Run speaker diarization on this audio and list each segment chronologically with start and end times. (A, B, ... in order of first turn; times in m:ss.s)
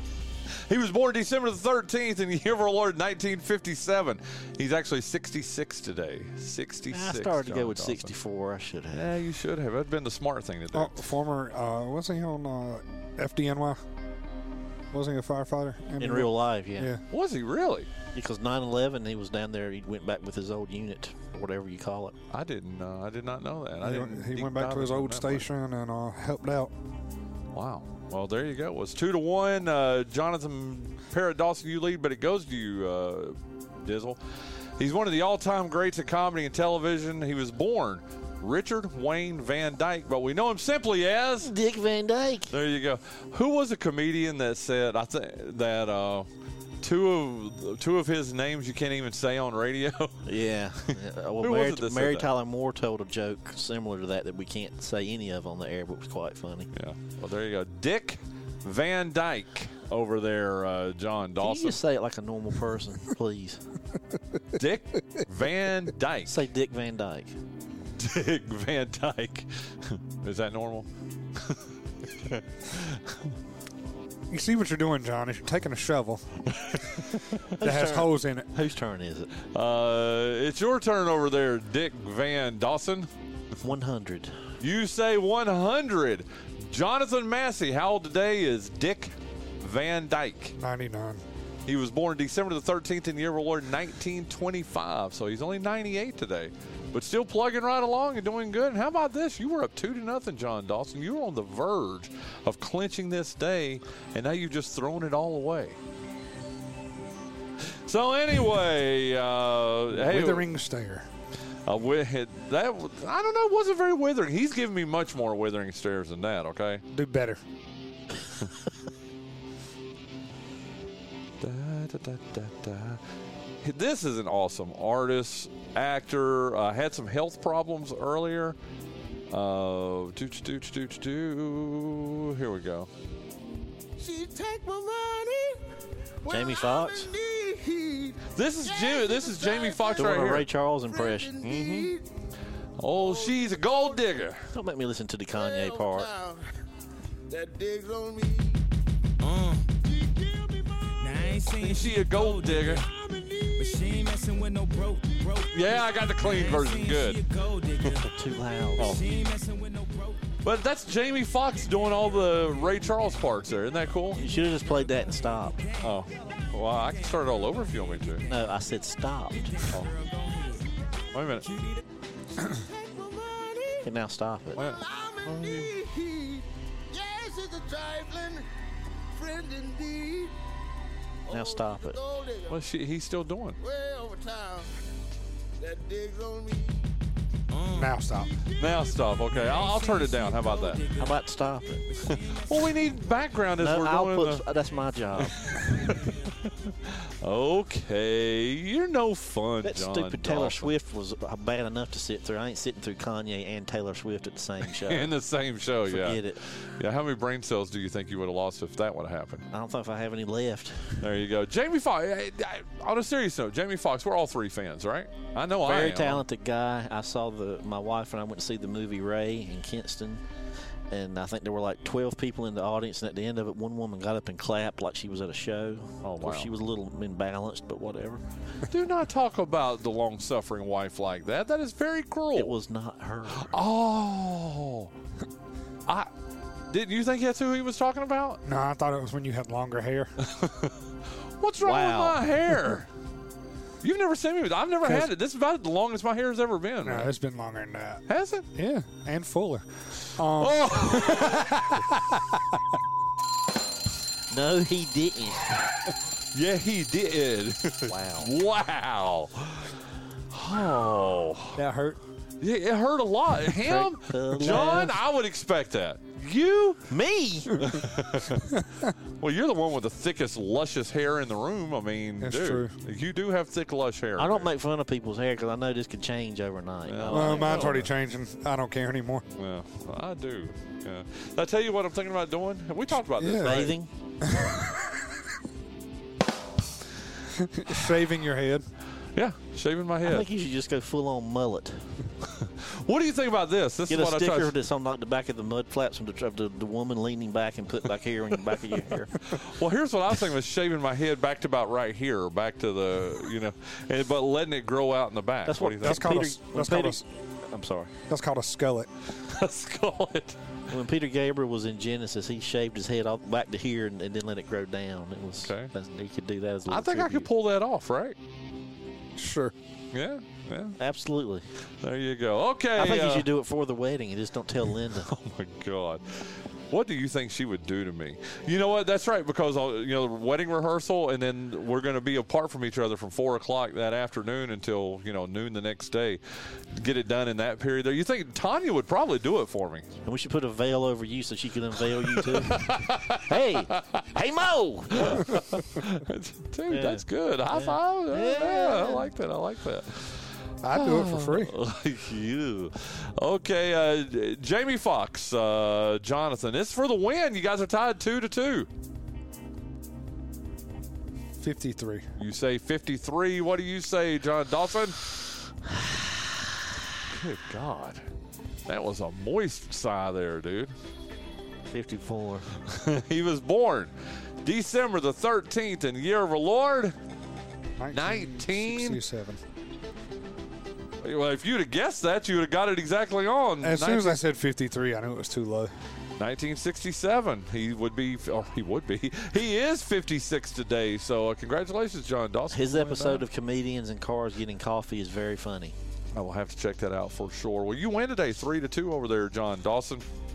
0:00.7-0:08.2 A
0:06.9-0:09.1 B
0:08.9-0:11.0 A
0:10.7-0:13.9 C
0:14.9-0:17.0 C
0:16.0-0:16.9 B
0:17.1-0:17.9 A
0:18.1-0:22.2 B
0:22.3-0:25.5 A
0:23.8-0:26.7 C
0:27.5-0:34.2 A
0:34.8-0:41.5 A
0:41.4-0:42.5 B
0:42.5-0:46.3 A
0:46.8-0:50.3 A
0:50.3-0:56.7 B
0:50.8-0:52.3 A
0:56.7-1:01.8 A
1:01.4-1:03.7 B
1:04.5-1:06.4 A
1:06.3-1:07.4 B
1:08.0-1:13.2 A
1:14.3-1:16.5 C
1:16.6-1:17.2 A
1:17.6-1:19.3 B
1:17.6-1:18.5 C
1:19.5-1:23.1 A
1:23.6-1:24.4 B
1:24.6-1:30.6 A
1:30.6-1:31.2 C
1:31.7-1:45.8 A
1:47.9-1:50.5 A
1:49.9-1:51.1 C
1:51.7-1:56.8 A
1:56.9-1:57.4 C
2:01.4-2:03.0 A
2:03.6-2:08.6 A
2:09.3-2:12.9 A
2:14.0-2:15.6 D
2:16.2-2:22.1 D
2:16.3-2:17.1 B
2:18.3-2:20.5 A
2:20.0-2:21.4 B
2:21.4-2:21.9 A
2:22.8-2:24.5 A
2:22.9-2:24.3 D
2:24.5-2:26.1 B
2:25.3-2:26.5 D
2:27.3-2:28.6 D
2:29.2-2:29.5 A
2:29.4-2:35.9 D
2:31.2-2:32.0 E
2:31.4-2:32.9 A
2:33.8-2:34.9 E
2:35.5-2:38.1 A
2:36.4-2:37.1 E
2:37.6-2:38.0 E
2:38.0-2:39.1 B
2:38.8-2:39.1 A
2:39.1-2:40.0 E
2:40.4-2:44.2 A
2:44.1-2:45.6 B
2:45.8-2:48.3 A
2:48.2-2:49.6 B
2:51.1-2:51.5 A
2:52.4-2:58.5 D
2:53.8-2:54.6 B
2:54.6-2:54.8 A
2:55.2-2:55.7 B
2:59.1-3:00.3 D
3:01.3-3:02.6 D
3:01.3-3:02.0 B
3:02.5-3:03.6 A
3:03.6-3:04.7 D
3:05.6-3:06.9 D
3:07.5-3:09.3 D
3:07.7-3:08.3 C
3:08.6-3:10.9 A
3:10.9-3:11.9 B
3:12.0-3:14.4 A
3:13.6-3:15.5 B
3:15.1-3:20.7 A
3:19.6-3:25.2 B
3:24.7-3:29.5 A
3:25.8-3:26.4 B
3:29.5-3:31.0 B
3:31.0-3:36.2 A
3:35.6-3:40.2 B
3:40.9-3:48.2 B
3:46.0-3:46.5 A
3:48.7-3:52.6 A
3:52.3-3:53.5 B
3:53.3-3:54.9 A
3:56.7-3:58.4 A
3:58.4-4:00.1 C
4:00.2-4:00.8 A
4:01.4-4:02.9 A
4:01.6-4:02.3 B
4:03.8-4:07.1 A
4:06.8-4:08.0 C
4:08.1-4:08.5 A
4:08.5-4:12.4 C
4:10.3-4:11.8 A
4:14.3-4:15.5 B
4:15.9-4:19.8 A
4:17.9-4:18.3 B
4:20.3-4:21.6 A
4:21.6-4:22.0 C
4:22.4-4:26.9 A
4:23.6-4:25.0 B
4:24.5-4:24.9 C
4:26.9-4:27.6 B
4:27.6-4:28.4 A
4:29.2-4:34.5 A
4:32.2-4:32.8 C
4:34.2-4:37.9 B
4:36.9-4:37.9 A
4:37.1-4:39.2 C
4:39.4-4:43.8 A
4:43.2-4:44.6 C
4:43.4-4:43.9 B
4:47.6-4:48.7 C
4:49.1-4:50.3 A
4:50.0-4:51.9 B
4:52.3-4:54.5 A
4:53.9-4:59.2 B
4:59.3-5:06.0 A
5:05.4-5:07.9 B
5:05.8-5:07.0 C
5:08.1-5:08.9 C
5:09.2-5:10.4 A
5:10.7-5:17.3 B
5:15.4-5:15.7 A
5:16.7-5:18.2 A
5:19.2-5:19.5 C
5:19.9-5:20.8 A
5:20.8-5:21.5 B
5:21.7-5:23.3 A
5:22.8-5:25.1 B
5:25.0-5:39.9 A
5:40.0-5:45.2 B
5:42.2-5:44.1 A
5:44.9-5:58.7 A
5:46.7-5:49.1 B
5:50.6-5:51.5 C
6:01.4-6:02.1 C
6:02.2-6:05.3 A
6:07.1-6:08.1 A
6:08.7-6:10.7 A
6:11.7-6:12.5 B
6:12.7-6:17.0 A
6:17.8-6:19.4 C
6:17.9-6:19.0 A
6:21.0-6:24.2 A
6:23.6-6:25.7 C
6:26.2-6:33.3 A
6:32.5-6:35.8 B
6:36.1-6:40.0 A